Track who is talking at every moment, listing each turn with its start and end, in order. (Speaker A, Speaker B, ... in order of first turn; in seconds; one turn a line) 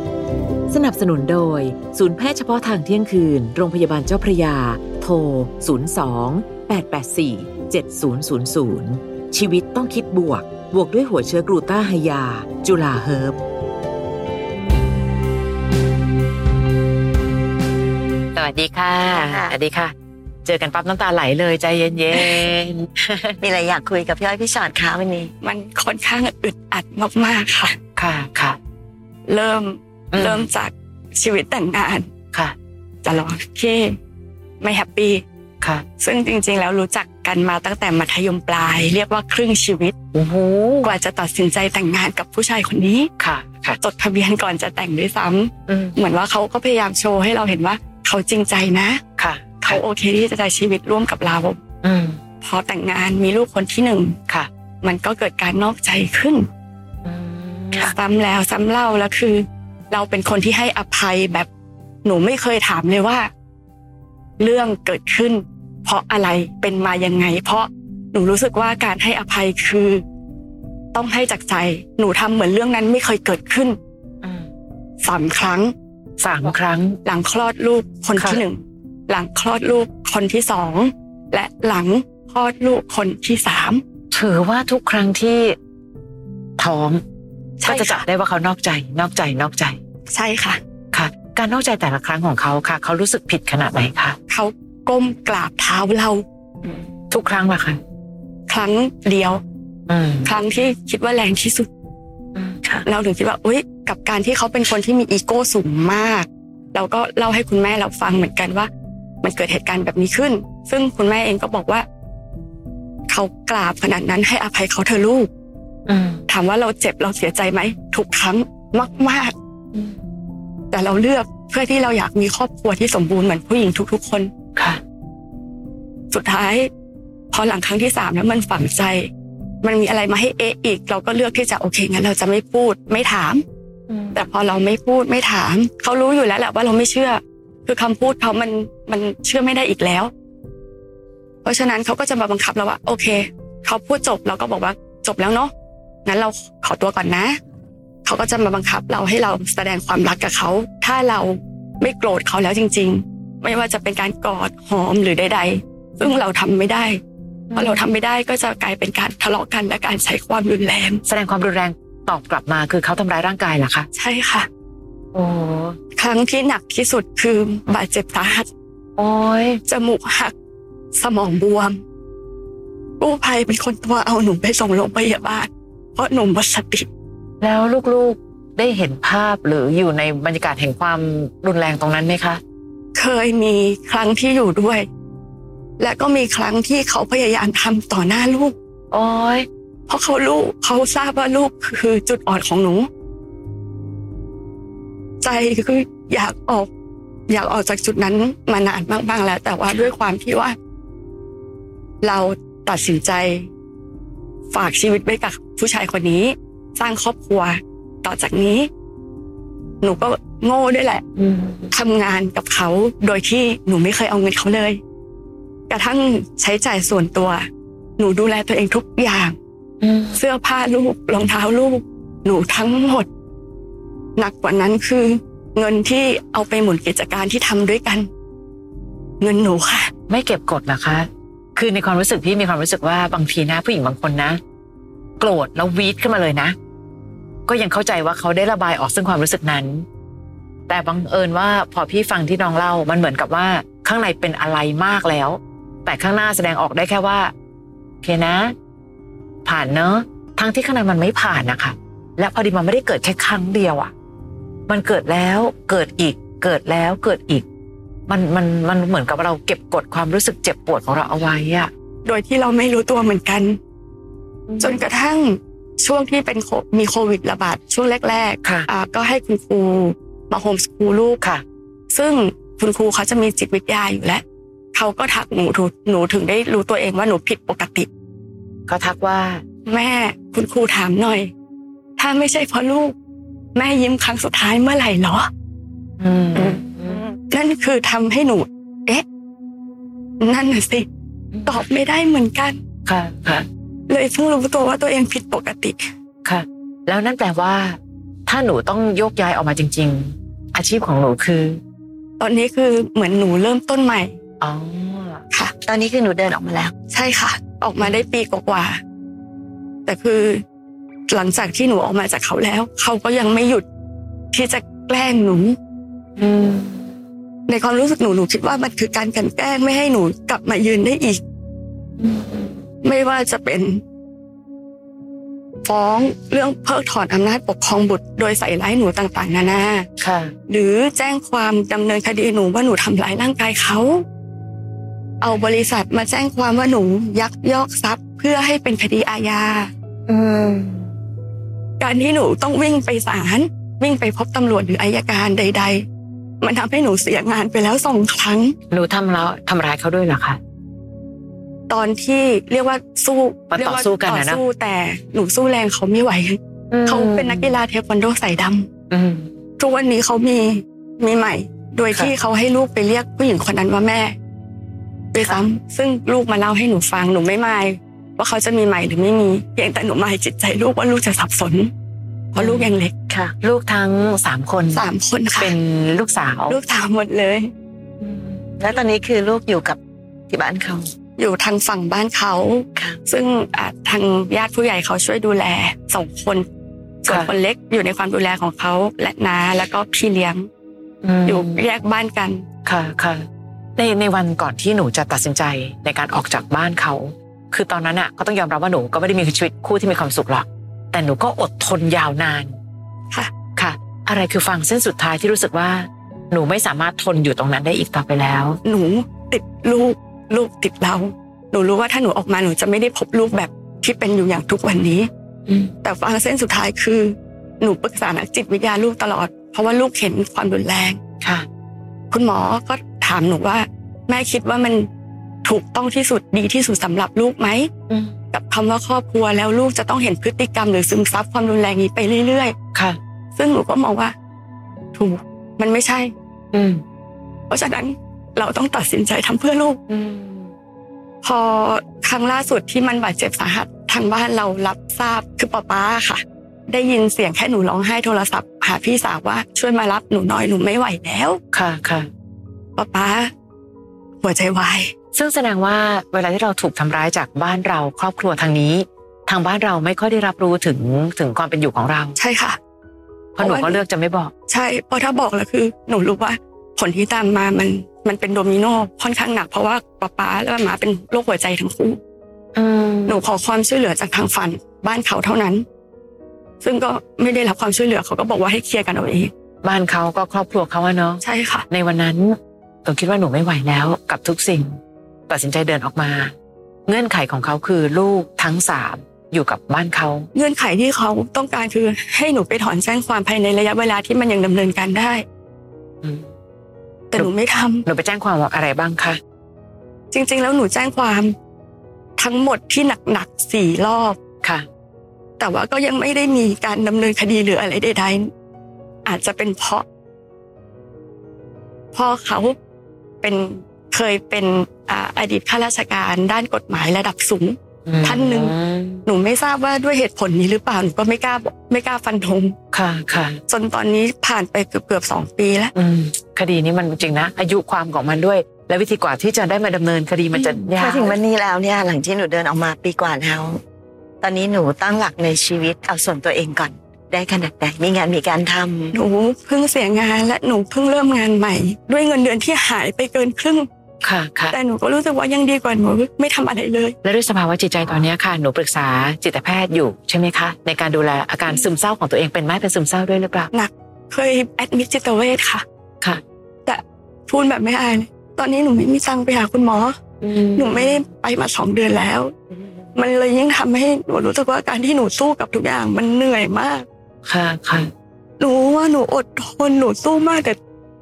Speaker A: 0.7-13.4
Speaker A: 18.3-19.9
Speaker B: 19.1-19.5
Speaker A: 20.4-23.4
Speaker B: 23.4-25.3
Speaker C: 25.4-27.8
Speaker A: 28.0-28.6
Speaker C: 29.3-32.1
Speaker A: 30.1-30.5
Speaker C: 33.0-34.0
Speaker C: 34.6-35.2
Speaker C: 36.0-39.9
Speaker A: 40.1-40.9
Speaker C: 40.8-43.1
Speaker A: 43.2-43.8
Speaker C: 43.8-49.0
Speaker A: 45.7-46.0
Speaker A: 49.2-49.8
Speaker C: 49.6-51.6
Speaker A: 51.8-52.2
Speaker C: 52.4-54.2
Speaker C: 54.8-56.5
Speaker A: 57.0-58.0
Speaker C: 57.7-61.5
Speaker C: 62.0-63.3
Speaker C: 64.4-70.0
Speaker C: 70.9-73.8
Speaker A: 74.2-74.5
Speaker C: 75.0-75.7
Speaker A: 76.2-77.0
Speaker C: 77.0-83.8
Speaker A: 78.2-78.4
Speaker A: 84.1-85.6
Speaker A: 86.6-87.0
Speaker C: 87.6-88.0
Speaker A: 87.7-89.8
Speaker C: 90.1-90.6
Speaker A: 90.9-94.2
Speaker C: 94.3-96.2
Speaker A: 96.7-97.8
Speaker C: 98.5-99.4
Speaker A: 99.9-100.3
Speaker C: 100.2-101.7
Speaker A: 102.4-102.6
Speaker C: 102.8-108.7
Speaker C: 109.2-111.9
Speaker C: 113.1-115.3
Speaker A: 115.9-116.2
Speaker C: 116.3-119.3
Speaker C: 120.7-124.3
Speaker C: 126.1-126.7
Speaker C: 127.3-129.1
Speaker C: 129.6-133.4
Speaker A: 133.9-134.2
Speaker C: 134.1-140.1
Speaker C: 141.4-145.5
Speaker C: 146.1-147.4
Speaker C: 148.1-157.0
Speaker A: 157.5-157.8
Speaker C: 157.6-161.0
Speaker A: 161.1-163.9
Speaker C: 164.0-164.5
Speaker A: 165.1-165.8
Speaker C: 166.0-168.5
Speaker A: 169.0-169.6
Speaker C: 169.7-170.3
Speaker C: 170.9-171.8
Speaker C: 173.0-176.9
Speaker A: 177.4-182.4
Speaker C: 182.9-184.9
Speaker C: 185.8-188.6
Speaker A: 188.9-189.5
Speaker C: 189.9-192.9
Speaker C: 195.2-196.7
Speaker C: 197.3-200.6
Speaker C: 202.0-203.5
Speaker C: 204.5-208.7
Speaker C: 209.8-211.0
Speaker A: 211.2-211.7
Speaker C: 211.7-214.8
Speaker C: 215.7-217.5
Speaker C: 218.0-219.4
Speaker A: 219.8-220.2
Speaker C: 220.2-223.1
Speaker C: 224.2-228.1
Speaker C: 229.2-229.9
Speaker A: 230.1-234.4
Speaker A: 235.2-236.6
Speaker A: 237.5-239.9
Speaker A: 240.7-247.3
Speaker A: 248.0-248.5
Speaker A: 249.4-253.9
Speaker A: 254.7-257.4
Speaker A: 258.1-261.7
Speaker C: 262.1-263.6
Speaker A: 264.5-264.8
Speaker C: 264.6-271.2
Speaker C: 271.9-274.2
Speaker C: 274.7-277.9
Speaker A: 278.7-279.4
Speaker C: 279.7-281.3
Speaker C: 282.0-282.9
Speaker C: 283.6-285.3
Speaker A: 286.0-287.0
Speaker C: 287.3-289.0
Speaker C: 290.2-290.9
Speaker A: 291.3-291.6
Speaker C: 291.5-292.6
Speaker A: 292.9-293.5
Speaker C: 293.9-295.8
Speaker A: 296.2-301.6
Speaker C: 302.2-304.1
Speaker A: 304.4-305.2
Speaker B: 305.6-306.7
Speaker C: 306.9-308.8
Speaker C: 309.9-310.4
Speaker C: 311.1-313.7
Speaker C: 314.3-315.6
Speaker A: 316.2-316.9
Speaker C: 317.5-321.2
Speaker A: 322.0-322.6
Speaker C: 322.8-323.8
Speaker C: 325.6-329.9
Speaker A: 330.0-330.3
Speaker C: 330.5-334.0
Speaker C: 335.2-339.7
Speaker A: 340.1-340.9
Speaker C: 341.8-345.9
Speaker C: 346.4-348.6
Speaker A: 348.7-350.4
Speaker C: 351.7-358.7
Speaker A: 353.5-354.4
Speaker A: 356.7-357.6
Speaker A: 358.9-359.3
Speaker C: 359.6-364.1
Speaker C: 365.1-371.7
Speaker A: 372.4-372.7
Speaker C: 372.4-372.9
Speaker B: 373.1-373.3
Speaker A: 373.4-374.9
Speaker C: 374.7-375.5
Speaker A: 375.4-376.6
Speaker C: 376.5-377.5
Speaker A: 378.0-378.4
Speaker B: 378.6-379.8
Speaker B: 380.3-380.9
Speaker C: 381.2-386.4
Speaker C: 387.0-390.5
Speaker A: 391.0-391.6
Speaker C: 391.3-392.4
Speaker A: 392.7-393.3
Speaker A: 393.8-402.6
Speaker A: 403.6-408.6
Speaker C: 408.6-415.1
Speaker A: 415.5-415.7
Speaker C: 415.8-421.0
Speaker A: 421.2-421.5
Speaker C: 422.1-424.9
Speaker C: 425.4-427.7
Speaker A: 427.9-428.1
Speaker C: 428.3-432.6
Speaker A: 432.7-433.0
Speaker C: 433.4-434.1
Speaker C: 434.9-436.1
Speaker A: 436.5-436.8
Speaker C: 437.5-439.8
Speaker A: 439.9-440.5
Speaker C: 441.2-451.4
Speaker A: 451.5-452.1
Speaker C: 452.8-453.3
Speaker C: 454.2-454.9
Speaker A: 455.1-462.1
Speaker C: 462.2-462.6
Speaker A: 463.4-464.3
Speaker C: 463.4-463.8
Speaker C: 464.5-472.0
Speaker A: 472.6-473.2
Speaker C: 473.1-475.6
Speaker C: 476.6-479.3
Speaker A: 479.6-486.3
Speaker C: 481.2-481.7
Speaker A: 486.9-490.3
Speaker C: 490.3-495.2
Speaker C: 497.1-497.9
Speaker A: 497.9-499.2
Speaker C: 500.1-501.3
Speaker C: 502.2-504.2
Speaker C: 505.4-508.3
Speaker C: 509.1-509.9
Speaker C: 511.9-512.6
Speaker C: 513.2-518.5
Speaker A: 517.9-519.0
Speaker C: 519.1-522.5
Speaker A: 522.7-523.4
Speaker C: 523.5-525.7
Speaker A: 525.8-531.2
Speaker B: 530.3-533.6
Speaker B: 534.2-539.0
Speaker C: 538.9-543.7
Speaker A: 544.0-544.6
Speaker C: 544.5-547.0
Speaker A: 547.0-553.5
Speaker C: 553.5-555.6
Speaker C: 556.7-560.0
Speaker A: 560.2-561.0
Speaker C: 560.5-562.3
Speaker A: 562.6-562.9
Speaker C: 563.0-566.9
Speaker A: 567.2-567.9
Speaker C: 568.4-570.6